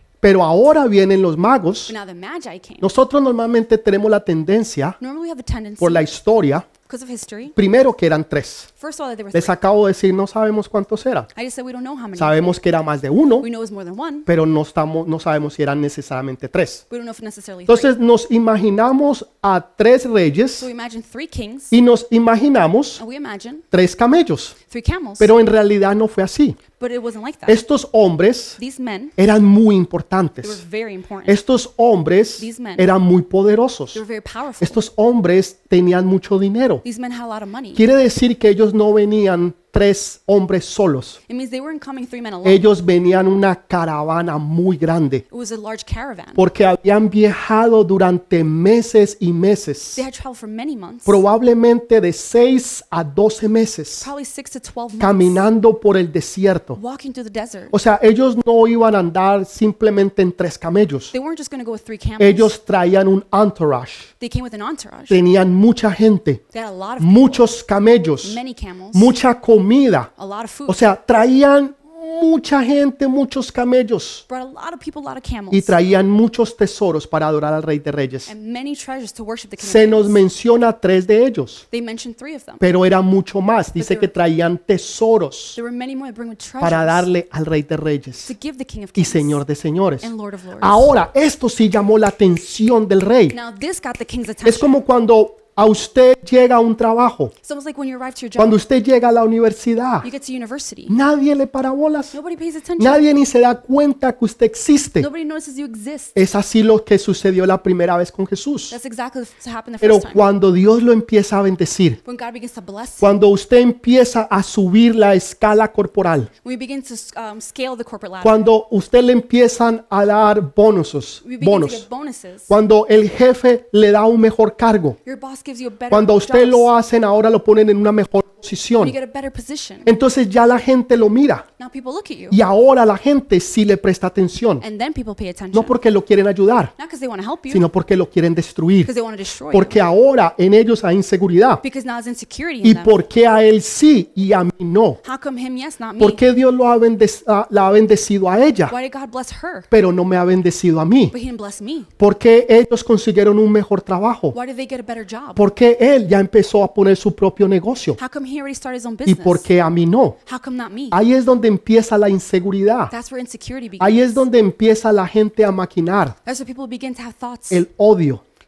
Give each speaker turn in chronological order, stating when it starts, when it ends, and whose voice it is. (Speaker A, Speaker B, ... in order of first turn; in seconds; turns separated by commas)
Speaker A: 0.2-1.9, Speaker B: 1.9-2.9, Speaker A: 2.8-5.0, Speaker B: 5.0-6.1, Speaker A: 5.8-6.7, Speaker B: 6.9-7.6, Speaker A: 7.5-8.7, Speaker B: 8.8-9.6, Speaker A: 9.3-11.3, Speaker B: 11.3-12.6, Speaker A: 12.2-13.5, Speaker B: 13.4-14.3, Speaker A: 14.3-16.8, Speaker B: 16.9-17.9, Speaker A: 17.7-20.7, Speaker B: 20.6-21.7, Speaker A: 21.7-23.0, Speaker B: 23.0-23.6, Speaker A: 23.7-24.6, Speaker B: 24.7-25.3, Speaker A: 25.2-26.6, Speaker B: 26.8-27.6, Speaker A: 27.5-28.6, Speaker B: 28.6-29.1, Speaker A: 29.2-30.6, Speaker B: 30.4-31.4, Speaker A: 31.3-34.0, Speaker B: 32.4-32.9, Speaker B: 33.9-34.9, Speaker A: 34.6-36.8, Speaker B: 36.8-37.8, Speaker A: 37.8-41.2, Speaker B: 41.3-42.7, Speaker A: 42.4-45.2, Speaker B: 45.3-46.4, Speaker A: 46.4-50.0, Speaker B: 50.0-51.2, Speaker A: 51.1-54.1, Speaker B: 54.0-55.5, Speaker A: 55.0-56.8, Speaker B: 56.8-57.7, Speaker A: 57.7-61.1, Speaker B: 61.1-62.5, Speaker A: 62.2-64.1, Speaker B: 64.2-65.2, Speaker A: 65.1-66.4, Speaker B: 66.5-67.5, Speaker A: 67.0-68.4, Speaker B: 68.2-69.2, Speaker A: 68.9-70.1, Speaker B: 70.2-70.8, Speaker A: 70.7-74.2, Speaker B: 74.3-75.8, Speaker A: 75.5-78.3, Speaker B: 78.3-80.2, Speaker A: 79.6-81.6, Speaker B: 81.7-82.6, Speaker A: 82.6-85.6, Speaker B: 83.8-84.1, Speaker B: 85.5-87.1, Speaker A: 86.6-88.3, Speaker B: 88.2-89.4, Speaker A: 89.0-93.4, Speaker B: 90.0-90.9, Speaker B: 93.3-94.8, Speaker A: 94.4-97.3, Speaker B: 97.4-98.6, Speaker A: 98.4-100.1, Speaker B: 100.0-100.9, Speaker A: 100.9-102.1, Speaker B: 102.1-103.1, Speaker A: 102.8-105.1, Speaker B: 105.0-106.2, Speaker A: 106.1-108.8, Speaker B: 108.7-110.2, Speaker A: 109.8-112.0, Speaker B: 112.0-113.1, Speaker A: 113.0-116.3, Speaker B: 116.4-118.4, Speaker A: 118.2-121.9, Speaker B: 121.2-122.5, Speaker A: 122.5-125.0, Speaker B: 125.0-126.7, Speaker A: 125.9-128.9, Speaker B: 128.8-129.9, Speaker A: 129.8-131.4, Speaker B: 131.6-132.4, Speaker A: 132.3-134.6, Speaker B: 134.6-135.8, Speaker A: 135.5-136.7, Speaker B: 136.8-137.6, Speaker A: 137.5-138.9, Speaker B: 138.8-139.8, Speaker A: 139.5-141.6, Speaker B: 141.6-143.0, Speaker A: 142.6-145.0, Speaker B: 145.0-146.2, Speaker A: 146.0-148.8, Speaker B: 148.7-149.7, Speaker A: 149.7-151.1, Speaker B: 151.1-151.9, Speaker A: 152.0-154.4, Speaker B: 154.3-155.4, Speaker A: 155.4-158.0, Speaker B: 158.0-159.5, Speaker A: 159.1-160.2, Speaker B: 160.3-161.0, Speaker A: 160.9-162.9, Speaker B: 162.9-164.3, Speaker A: 163.8-166.2, Speaker B: 166.2-167.6, Speaker A: 167.5-168.2